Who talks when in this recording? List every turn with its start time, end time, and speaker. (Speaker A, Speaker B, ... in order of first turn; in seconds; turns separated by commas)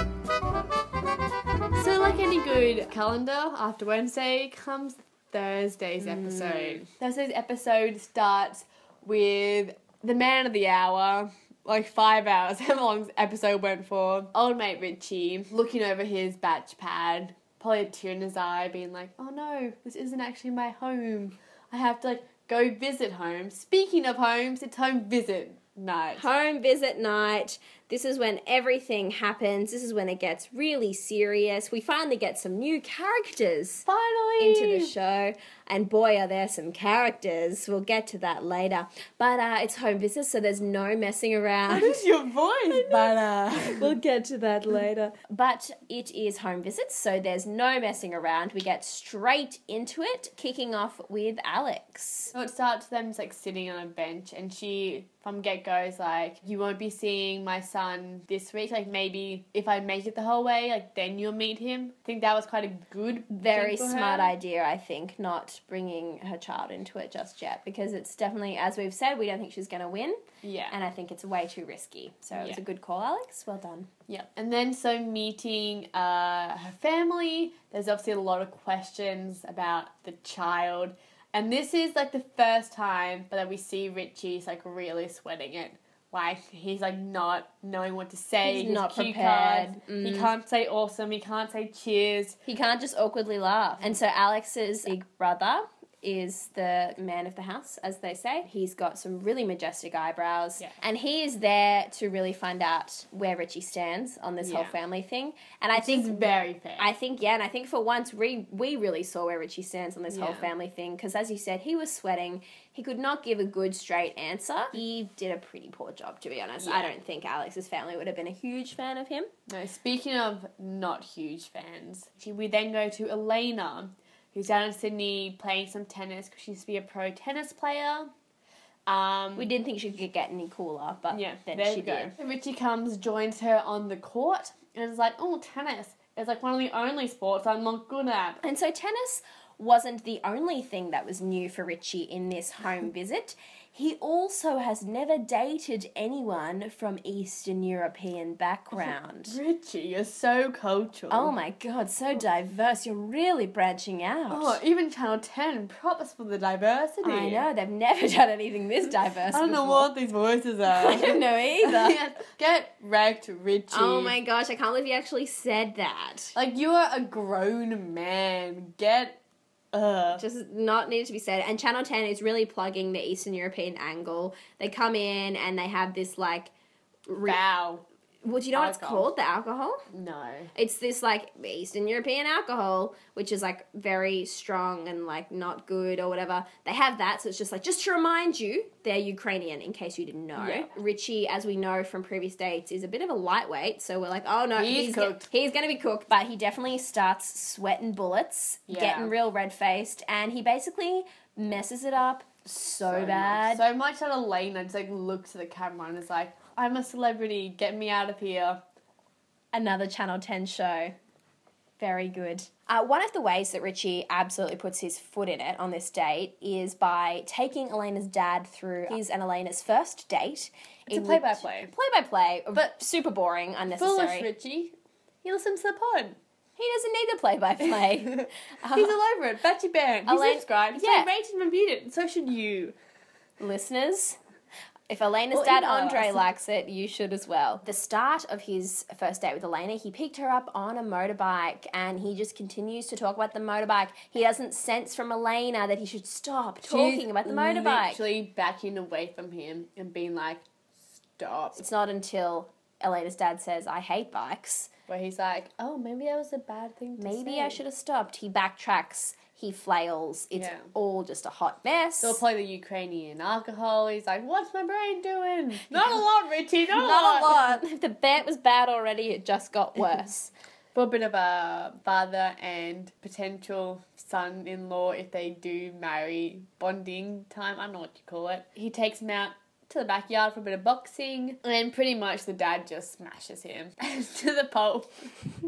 Speaker A: 1.8-26.3, Speaker B: 6.0-6.8, Speaker B: 26.1-33.8, Speaker A: 33.9-34.9, Speaker B: 34.4-42.0, Speaker A: 41.7-44.0, Speaker B: 42.7-52.3, Speaker A: 52.3-64.3, Speaker B: 63.3-73.9, Speaker A: 70.4-70.8, Speaker A: 72.3-72.6, Speaker A: 74.1-92.4, Speaker B: 88.4-90.3, Speaker B: 92.5-119.3, Speaker A: 104.4-104.8, Speaker A: 105.7-106.9, Speaker A: 110.1-110.5, Speaker A: 116.6-116.9, Speaker A: 119.5-128.1, Speaker A: 128.9-129.5, Speaker B: 129.3-132.1, Speaker A: 131.1-138.4, Speaker B: 138.4-149.4, Speaker A: 148.7-151.3, Speaker B: 151.1-154.6, Speaker A: 154.3-157.4, Speaker B: 157.0-159.9, Speaker A: 159.3-164.2, Speaker B: 160.7-162.0, Speaker B: 163.7-166.3, Speaker A: 166.3-169.2, Speaker A: 169.7-170.2, Speaker B: 170.2-176.5, Speaker B: 177.1-177.4, Speaker A: 177.2-177.8, Speaker B: 178.2-179.8, Speaker A: 178.5-179.1, Speaker A: 179.9-180.5, Speaker B: 180.5-203.6, Speaker A: 190.3-190.7, Speaker A: 194.6-195.3, Speaker A: 198.7-199.1, Speaker A: 202.8-208.6, Speaker B: 209.5-210.9, Speaker B: 211.8-224.3, Speaker A: 220.9-221.7, Speaker A: 223.7-226.2, Speaker B: 226.6-228.9, Speaker A: 228.1-232.8, Speaker B: 230.1-231.1, Speaker B: 233.4-234.2, Speaker B: 234.9-248.0, Speaker A: 235.3-236.3, Speaker A: 246.6-250.4, Speaker A: 251.0-251.6, Speaker B: 251.6-254.7, Speaker A: 254.9-257.6, Speaker B: 257.0-262.2, Speaker A: 260.3-260.7, Speaker A: 262.0-267.5, Speaker B: 265.7-266.0, Speaker B: 266.7-270.3, Speaker A: 270.7-285.1